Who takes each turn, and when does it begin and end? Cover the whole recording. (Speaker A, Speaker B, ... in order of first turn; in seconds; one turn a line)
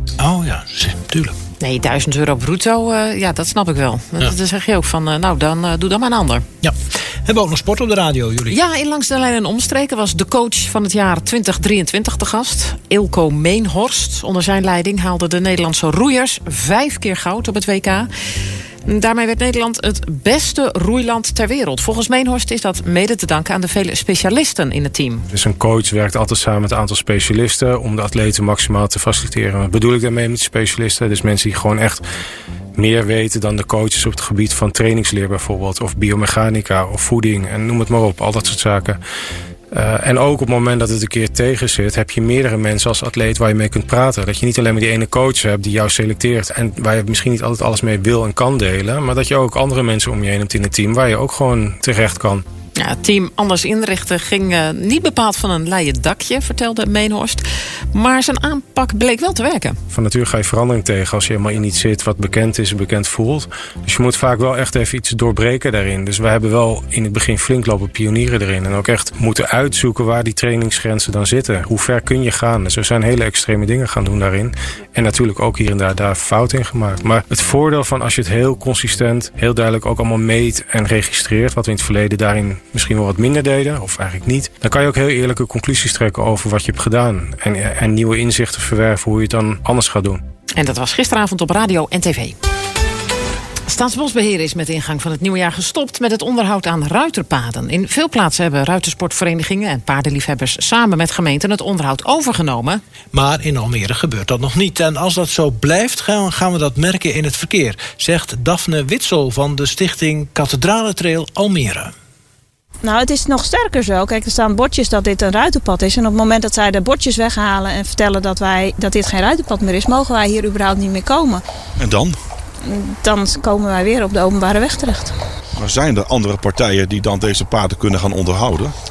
Speaker A: 0.2-1.3
Speaker B: 0.2-1.3
Speaker C: 1.6-6.4
Speaker A: 7.2-8.4
Speaker B: 7.4-8.5
Speaker C: 8.5-18.1
Speaker C: 18.8-25.2
Speaker B: 25.3-32.0
Speaker B: 32.7-39.0
Speaker B: 39.7-52.4
Speaker C: 52.8-59.8
Speaker B: 59.9-90.2
Speaker C: 90.5-92.3
Speaker C: 93.7-102.8
Speaker A: 103.1-111.9
Speaker D: 112.8-121.4
Speaker D: 122.6-125.1
Speaker E: 125.6-128.7